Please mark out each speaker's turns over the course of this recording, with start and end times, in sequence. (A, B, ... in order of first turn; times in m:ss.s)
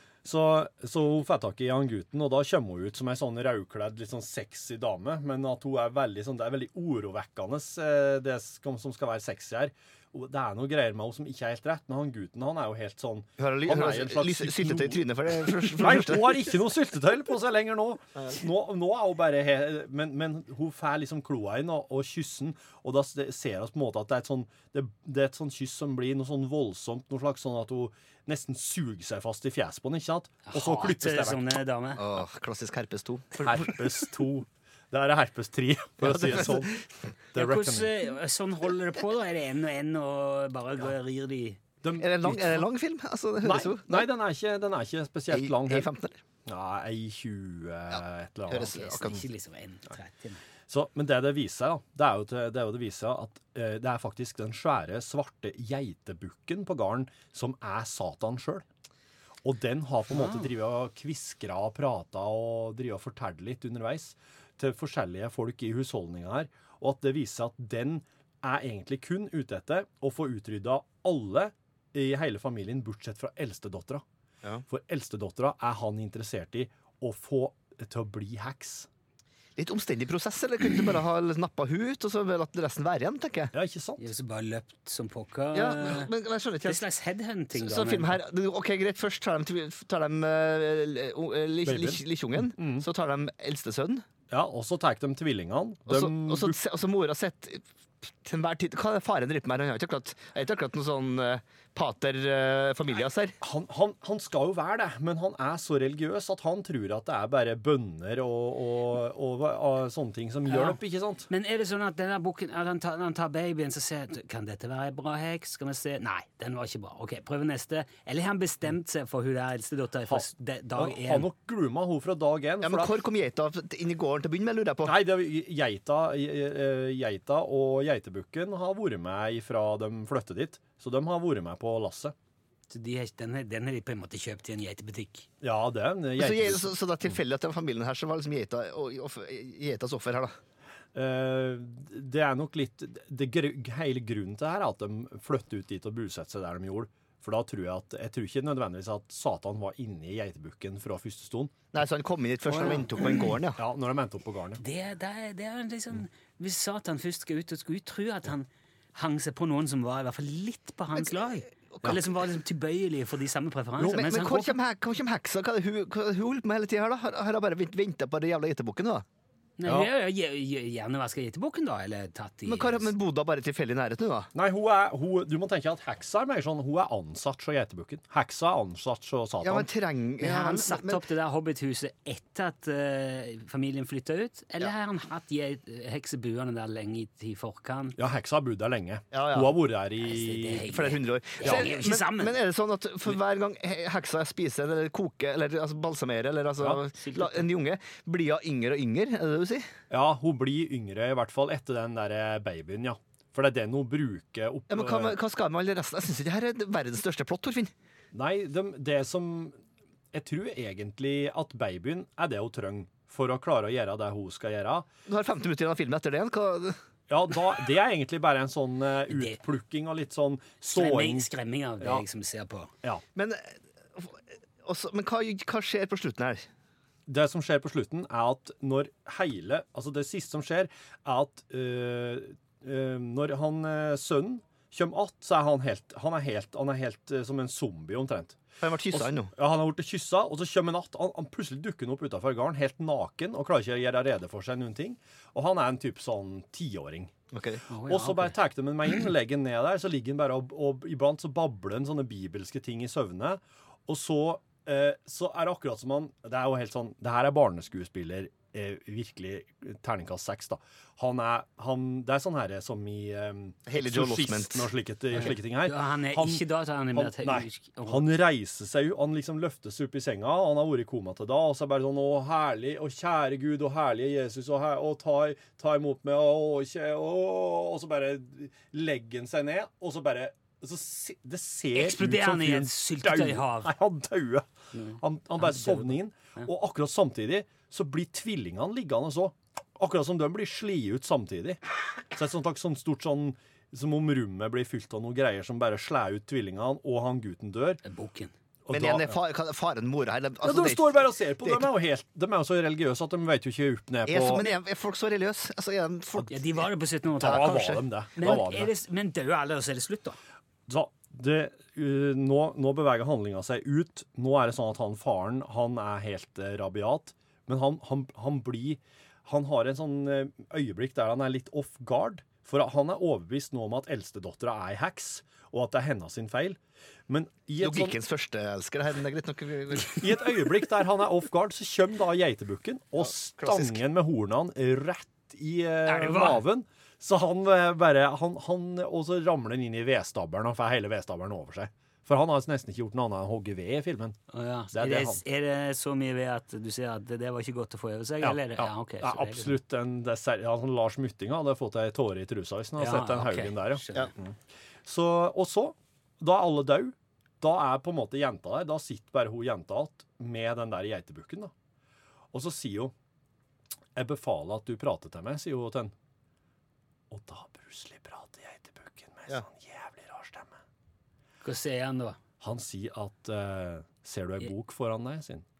0:00.2-0:31.5 A
0:13.4-0:16.5 B
0:30.4-0:32.1 C
0:32.0-0:33.8 B
0:33.4-0:36.8 A
0:36.0-0:36.8 B
0:37.3-0:38.0 A
0:37.4-0:41.6 C
0:41.8-0:42.7 A
0:42.0-0:44.1 B
0:43.4-0:45.9 A
0:45.3-0:46.2 B
0:46.4-0:49.2 A
0:47.9-0:49.2 B
0:48.6-0:50.4 C
0:50.7-0:58.6 A
0:59.4-1:14.0 A
1:14.7-1:18.9 A
1:19.6-1:23.5 B
1:23.5-1:24.0 A
1:24.0-1:26.1 C
1:25.5-1:26.8 B
1:26.6-1:28.2 C
1:27.5-1:34.0 B
1:31.6-1:32.9 A
1:34.3-1:36.6 A
1:35.9-1:43.3 B
1:43.4-1:51.3 A
1:50.4-1:50.8 C
1:51.3-2:01.3 C
2:00.0-2:03.0 A
2:02.6-2:05.0 B
2:04.8-2:12.1 A
2:12.7-2:15.3 C
2:15.4-2:16.7 A
2:16.2-2:20.3 B
2:20.9-2:31.5 A
2:31.7-2:33.6 B
2:32.5-2:33.4 C
2:33.5-2:34.6 A
2:34.6-2:44.5 C
2:43.8-2:49.0 B
2:49.6-2:52.9 C
2:49.6-2:49.9 A
2:52.4-2:54.3 B
2:54.3-2:59.7 A
2:59.4-3:01.0 B
3:00.2-3:08.0 C
3:08.0-3:10.7 A
3:09.1-3:09.6 B
3:10.0-3:12.4 C
3:10.6-3:19.7 B
3:17.0-3:17.4 C
3:19.9-3:25.2 A
3:24.7-3:27.7 B
3:28.1-3:29.6 A
3:30.1-3:34.9 A
3:35.1-3:36.7 B
3:37.1-3:42.0 A
3:39.1-3:39.4 C
3:40.7-3:42.7 C
3:43.1-3:46.4 B
3:47.1-4:07.1 A
3:58.6-3:59.3 B
4:07.3-4:07.7 B
4:07.7-4:08.3 C
4:07.8-4:26.4 A
4:23.7-4:24.7 B
4:25.1-4:28.1 C
4:26.9-4:44.5 A
4:41.7-4:43.7 C
4:44.7-4:46.5 C
4:45.0-4:51.6 A
4:52.1-4:57.8 A
4:57.8-4:58.3 C
4:58.6-4:59.2 A
4:58.7-5:01.7 B
5:00.4-5:04.5 A
5:04.0-5:06.7 B
5:06.3-5:10.2 C
5:07.1-5:08.7 A
5:07.2-5:08.4 B
5:10.7-5:26.6 A
5:27.1-5:28.0 A
5:27.6-5:29.9 B
5:29.9-5:44.2 A
5:33.0-5:33.8 B
5:35.8-5:36.4 C
5:44.3-5:49.6 C
5:44.7-5:45.2 A
5:48.2-6:01.5 A
5:52.8-5:54.1 C
6:02.3-6:02.9 A
6:04.0-6:05.9 A
6:07.1-6:10.6 A
6:11.4-6:12.2 C
6:12.4-6:15.4 A